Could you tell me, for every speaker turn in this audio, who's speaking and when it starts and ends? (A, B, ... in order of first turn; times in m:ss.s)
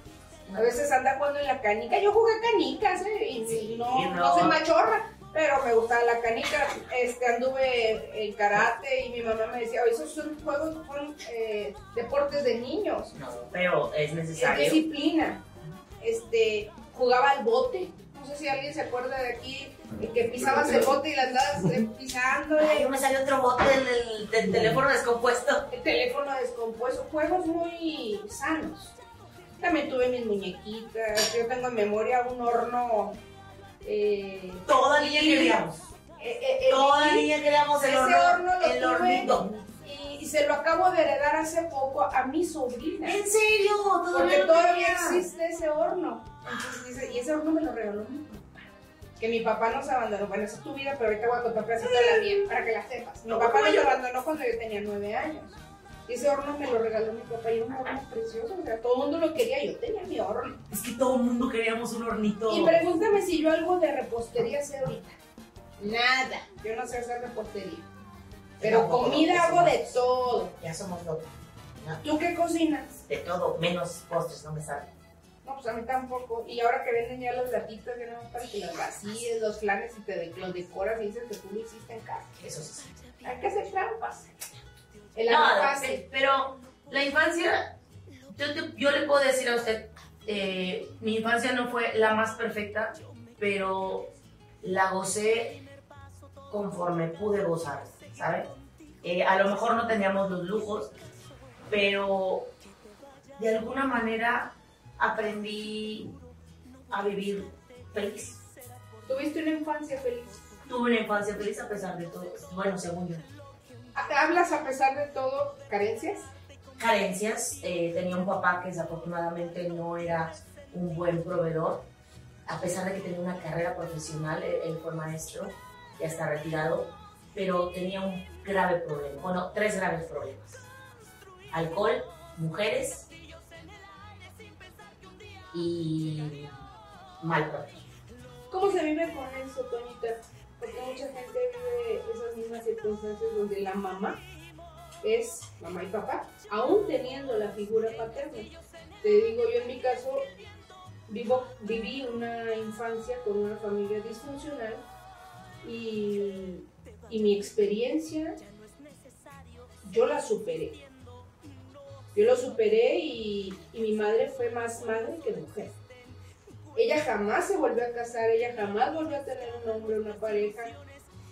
0:00.5-0:13.1 A
0:03.4-0:04.6 B
0:13.1-0:14.8 B
0:14.4-0:15.4 A
0:16.0-0:22.9 A
0:22.6-0:25.6 B
0:25.7-0:29.0 A
0:29.6-0:33.2 A
0:33.8-0:35.6 A
0:34.7-0:35.8 B
0:36.2-0:43.2 A
0:36.7-0:39.6 B
0:43.0-0:45.3 B
0:44.1-0:48.6 A
0:49.2-1:00.6 A
0:51.8-0:52.4 B
0:53.2-0:54.0 B
1:00.7-1:03.0 B
1:02.5-1:05.2 A
1:05.8-1:07.9 A
1:08.6-1:09.8 B
1:08.6-1:10.5 A
1:10.6-1:12.0 B
1:12.0-1:13.0 A
1:13.1-1:14.9 B
1:15.4-1:22.4 A
1:22.4-1:23.0 B
1:23.2-1:24.3 A
1:25.2-1:26.0 A
1:25.3-1:27.7 B
1:28.3-1:34.1 B
1:34.6-1:35.6 B
1:36.5-1:38.5 B
1:39.0-1:40.9 B
1:41.7-1:42.5 B
1:43.4-1:46.1 B
1:46.9-1:48.4 B
1:49.1-1:50.4 A
1:50.7-1:53.2 B
1:54.0-1:56.3 A
1:56.8-2:01.8 B
2:02.5-2:10.6 B
2:11.5-2:13.1 B
2:15.5-2:16.6 B
2:17.2-2:17.9 B
2:18.5-2:24.2 A
2:25.0-2:30.3 A
2:31.1-2:34.8 A
2:35.6-2:38.4 A
2:39.8-2:40.8 A
2:42.1-2:45.8 A
2:46.7-2:50.8 A